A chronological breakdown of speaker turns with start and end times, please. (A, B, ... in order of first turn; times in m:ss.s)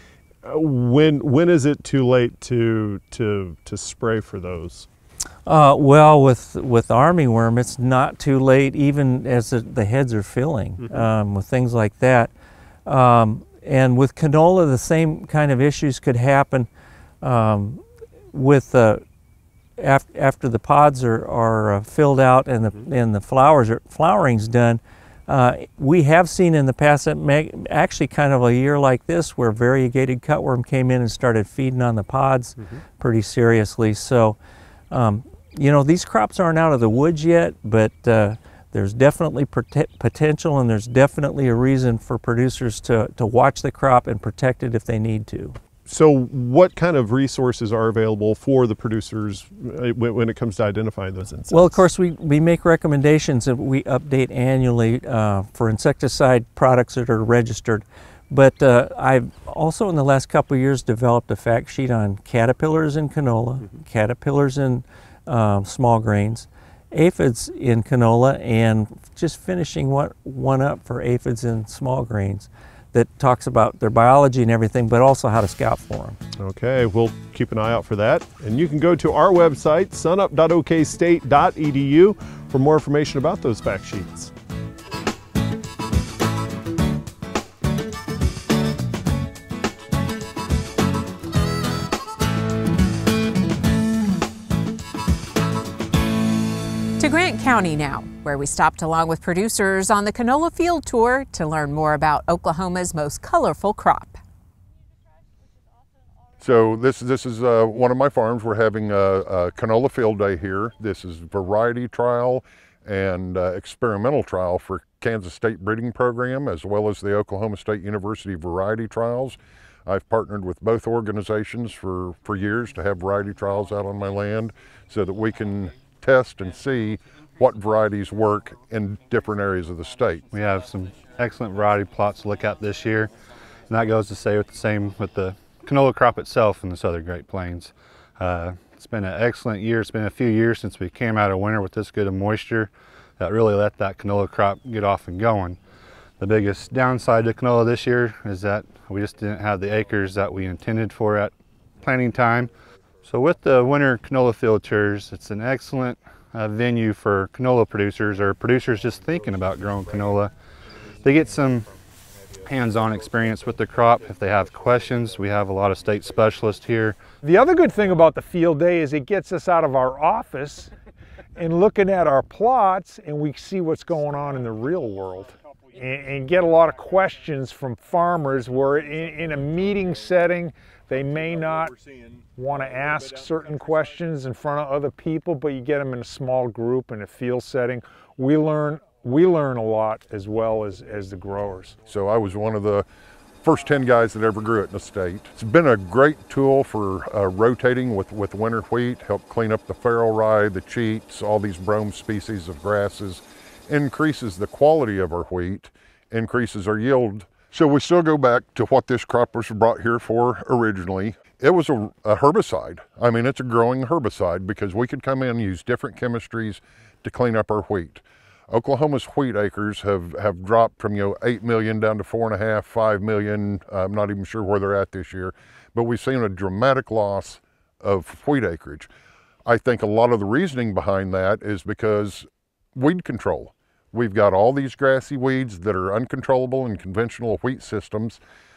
0:00.4-0:04.9 A
0:05.4-0:12.3 B
0:12.8-0:16.7 B
0:17.2-0:19.0 B
0:19.8-0:34.4 B
0:34.9-0:45.6 B
0:45.8-0:51.8 A
0:51.5-1:16.2 B
1:16.4-1:24.3 A
1:37.0-1:44.2 C
1:46.4-2:10.3 D
2:10.3-2:13.1 E
2:13.7-2:25.6 E
2:26.2-2:32.5 E
2:33.0-2:40.3 E
2:41.0-2:41.7 E
2:42.4-2:47.0 E
2:47.2-2:50.7 F
2:51.4-3:01.8 F
3:02.4-3:11.8 F
3:11.9-3:12.8 D
3:13.4-3:48.9 D
3:49.4-3:58.2 D